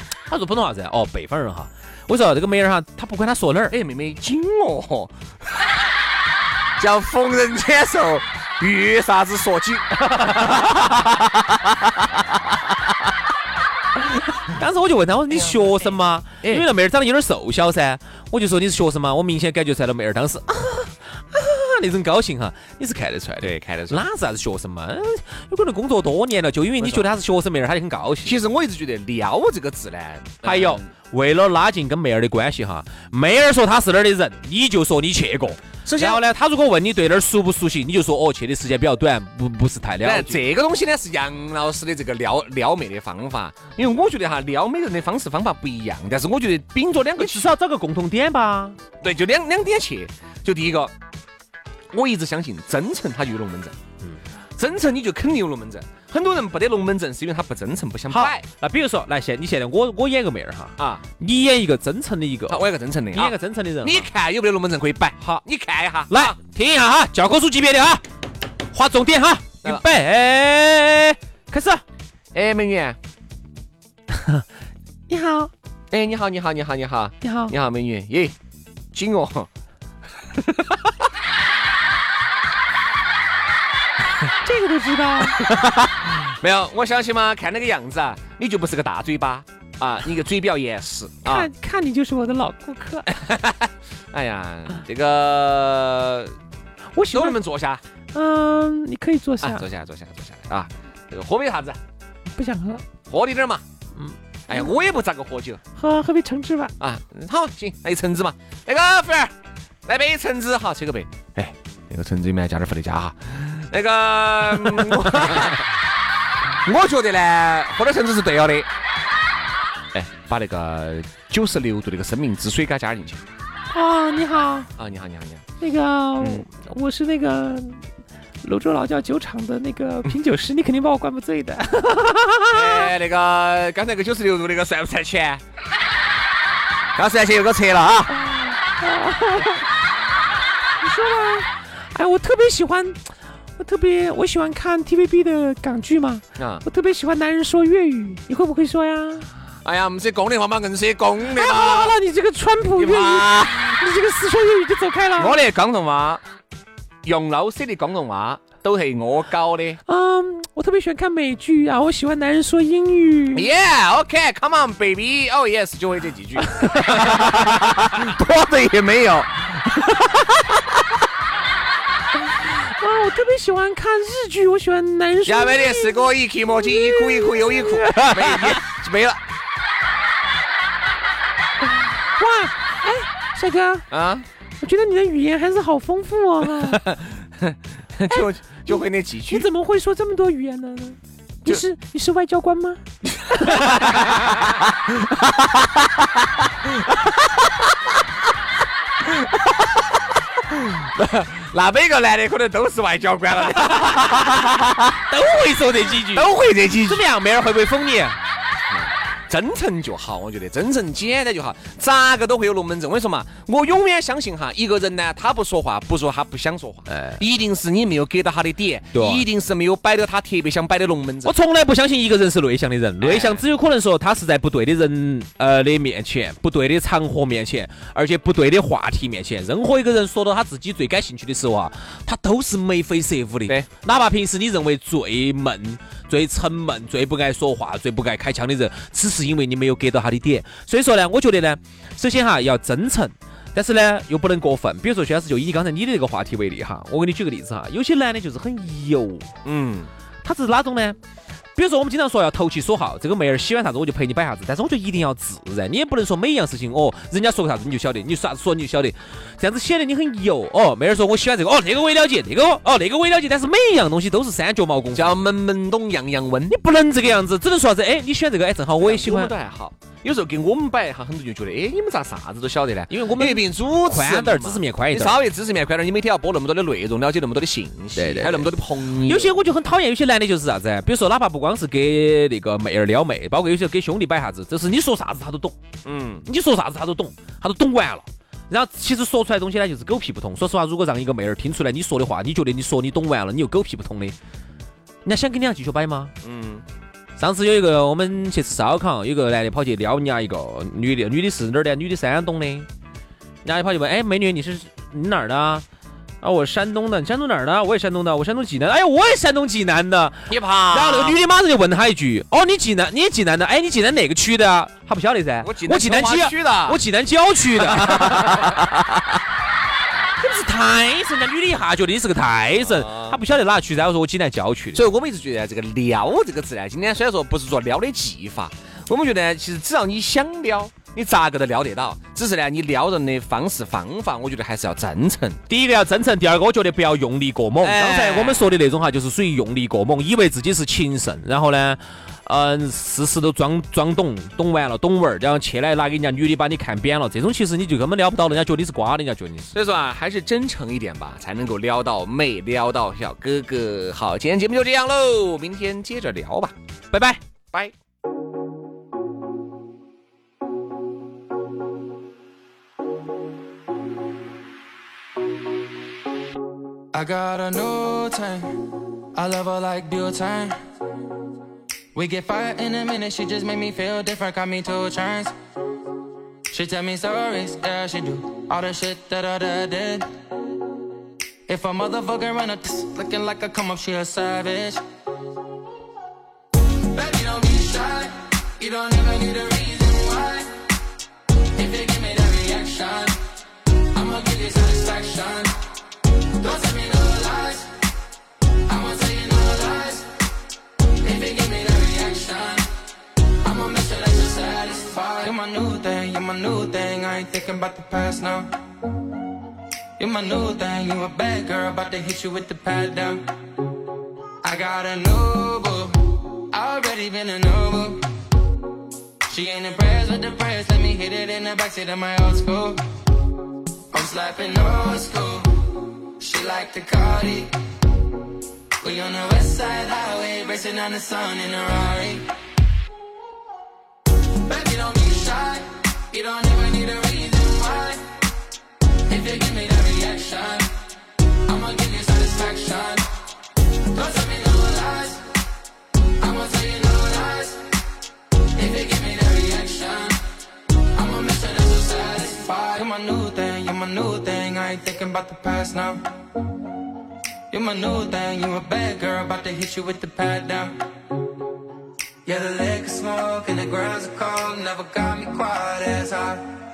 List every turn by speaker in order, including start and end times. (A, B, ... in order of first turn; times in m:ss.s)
0:00.3-0:03.8 A
0:03.7-0:05.2 B
0:06.8-0:12.2 B
0:10.2-0:10.9 A
0:14.5-0:28.4 A
0:15.3-0:15.6 B
0:23.4-0:24.0 B
0:26.8-0:27.1 B
0:28.2-0:30.9 B
0:30.4-0:40.4 A
0:35.8-0:36.2 B
0:40.0-0:47.5 B
0:47.2-0:48.8 A
0:49.0-0:50.9 B
0:51.9-0:53.8 B
0:54.6-0:58.4 B
0:58.1-1:04.1 A
1:00.8-1:01.0 B
1:02.5-1:06.4 B
1:06.1-1:08.0 A
1:08.7-1:11.8 A
1:12.3-1:13.0 B
1:14.1-1:14.4 A
1:15.1-1:15.5 A
1:15.9-1:18.4 B
1:17.2-1:17.5 A
1:18.9-1:19.5 B
1:20.3-1:20.9 B
1:24.4-1:25.6 A
1:25.4-1:31.5 B
1:31.2-1:33.2 A
1:33.1-1:36.4 B
1:37.0-1:37.4 A
1:37.1-1:37.8 B
1:38.1-1:39.7 A
1:39.4-1:41.8 B
1:42.3-1:42.8 A
1:43.1-1:43.6 B
1:44.0-1:44.7 A
1:44.5-1:45.6 B
1:45.8-1:46.7 A
1:46.8-1:49.3 B
1:49.8-1:55.6 B
1:56.6-1:58.7 B
1:59.9-2:03.2 B
2:03.7-2:04.7 A
2:04.8-2:05.4 B
2:05.6-2:07.8 A
2:08.4-2:12.9 A
2:12.5-2:15.4 B
2:17.0-2:18.2 B
2:18.1-2:19.6 A
2:20.8-2:23.0 A
2:23.6-2:29.3 A
2:26.4-2:26.6 B
2:29.6-2:32.0 B
2:31.4-2:35.4 A
2:32.7-2:33.7 B
2:35.2-2:36.2 B
2:37.0-2:39.8 B
2:39.9-2:43.5 A
2:43.3-2:50.8 B
2:46.5-2:47.8 A
2:52.3-2:56.1 A
2:55.3-2:59.2 B
2:56.6-2:58.6 A
3:01.7-3:03.9 A
3:03.9-3:04.3 B
3:04.6-3:06.9 A
3:06.6-3:09.5 B
3:09.3-3:14.3 A
3:13.0-3:15.8 B
3:16.6-3:17.0 B
3:19.0-3:25.0 B
3:23.8-3:24.4 A
3:25.1-3:28.2 A
3:26.1-3:27.0 B
3:28.7-3:41.3 B
3:36.9-3:37.2 A
3:38.9-3:39.2 A
3:41.2-4:09.3 A
3:43.0-3:43.4 B
4:09.4-4:09.9 B
4:10.2-4:11.0 A
4:11.6-4:25.2 A
4:24.9-4:26.6 B
4:26.5-4:29.3 A
4:28.8-4:39.3 B
4:32.9-4:35.2 A
4:38.0-4:45.6 A
4:45.8-4:46.2 B
4:46.2-4:54.2 A
4:55.0-4:56.1 A
4:56.2-4:56.6 B
4:57.2-5:02.7 A
5:03.4-5:05.6 A
5:06.2-5:18.8 A
5:10.3-5:11.2 B
5:15.4-5:16.8 B
5:17.6-5:18.7 B
5:20.2-5:24.8 A
5:22.6-5:23.2 B
5:24.7-5:35.4 B
5:35.5-5:49.5 A
5:37.6-5:38.6 B
5:49.5-5:56.5 B
5:56.9-5:57.2 A
6:06.9-6:08.6 C
6:09.2-6:10.6 C
6:11.9-6:15.3 C
6:16.5-6:20.1 C
6:21.5-6:24.8 C
6:26.9-6:30.6 C
6:31.6-6:35.6 C
6:36.4-6:37.7 C
6:38.7-6:40.1 C
6:41.0-6:42.7 C
6:43.4-6:48.6 C
6:50.0-6:53.3 C
6:54.4-6:58.1 C
6:59.3-7:02.8 C
7:03.9-7:07.6 C
7:08.8-7:12.3 C
7:14.4-7:18.0 C
7:19.1-7:20.8 C
7:21.3-7:23.1 C
7:23.8-7:25.2 C
7:26.2-7:27.6 C
7:28.6-7:30.2 C
7:30.9-7:36.0 C
7:37.5-7:40.9 C
7:42.2-7:46.5 C